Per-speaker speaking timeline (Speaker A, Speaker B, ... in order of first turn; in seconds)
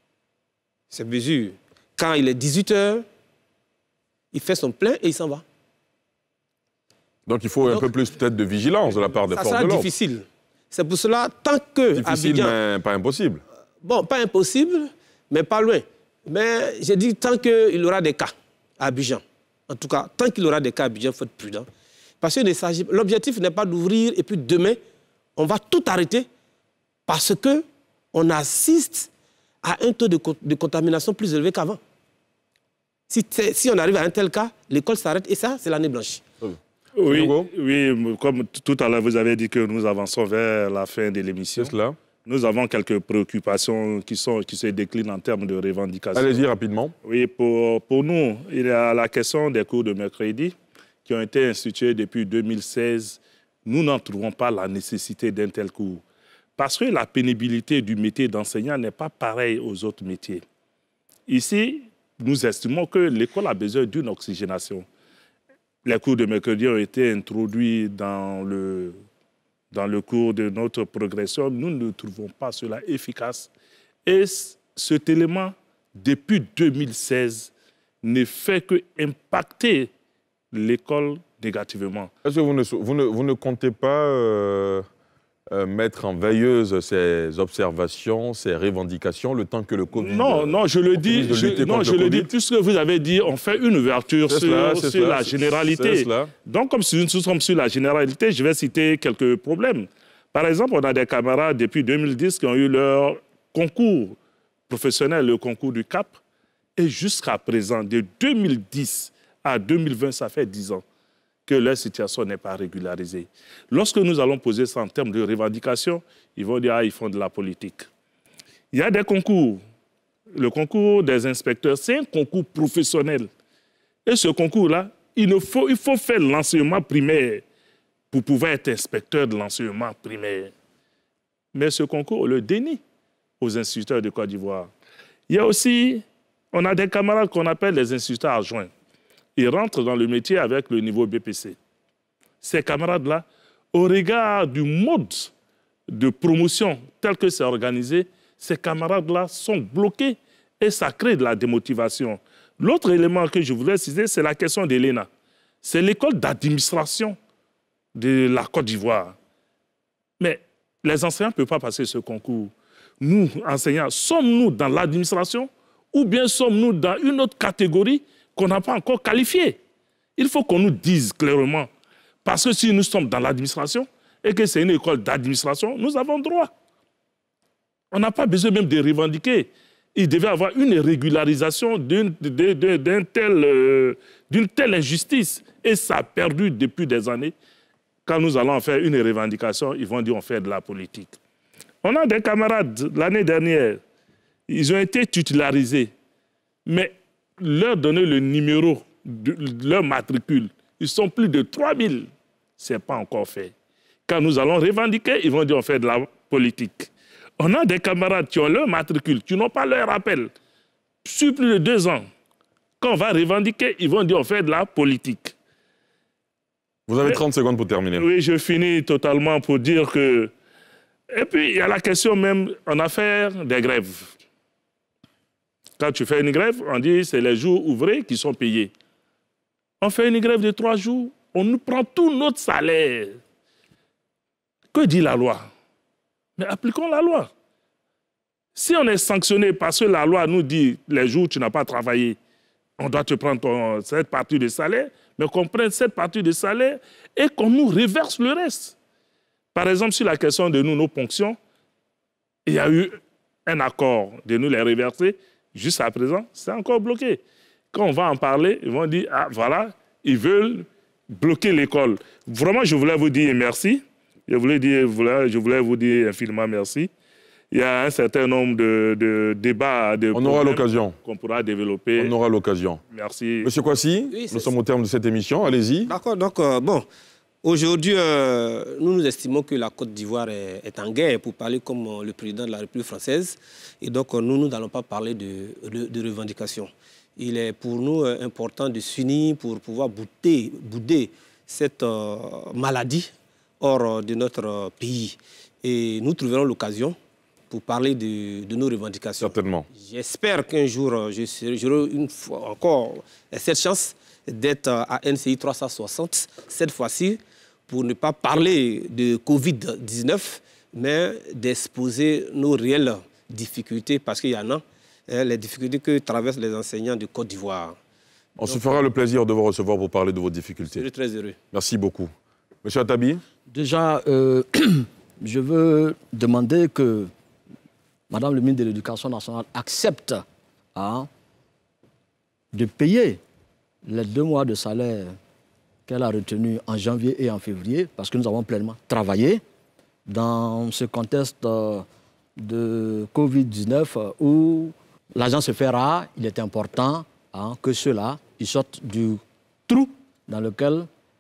Speaker A: 0.9-3.1, 4.3-5.4, 9.3-12.6, 13.8-21.7, 22.2-24.8, 25.4-26.3, 27.1-29.1, 29.6-31.8, 33.1-36.2, 274.1-274.5, 275.9-276.9, 277.4-297.0, 297.5-317.8, 320.7-321.4
Speaker B: 7.3-9.9, 11.9-13.4, 36.4-37.5, 41.6-42.0, 46.1-46.9, 82.2-84.8, 85.5-92.3, 94.3-96.3, 216.9-218.1, 270.1-271.0, 272.0-272.8, 273.4-275.9, 299.2-299.7, 318.4-320.8, 321.5-322.1, 322.6-323.2
Speaker C: 37.0-41.7, 42.2-46.4, 47.0-56.0, 56.6-60.4, 61.3-64.8, 65.8-69.0, 69.7-73.5, 74.1-77.5, 78.0-79.9, 80.5-82.1, 89.9-104.2, 104.7-106.2, 106.8-110.8, 111.5-117.9, 118.7-119.6, 120.3-123.3, 124.1-127.4, 128.1-130.5, 131.5-132.8, 133.4-134.7, 135.3-138.7, 139.4-141.6, 142.4-145.3, 145.9-155.1, 155.6-157.2, 157.9-159.2, 160.2-169.6, 170.2-171.7, 172.2-176.5, 177.9-187.3, 188.1-191.2, 191.8-193.8, 194.5-195.9, 196.7-203.5, 204.1-210.3, 211.0-212.1, 212.8-215.3, 217.9-220.3, 221.1-224.2, 225.8-228.7, 229.8-233.2, 234.7-235.5, 236.4-237.3, 238.6-242.2, 242.8-248.8, 249.5-251.4, 252.5-257.2, 257.7-266.9, 267.5-272.1, 272.9-273.5
Speaker D: 323.5-327.1, 328.1-331.1, 332.5-333.2, 333.9-335.2, 335.9-339.4, 340.1-350.9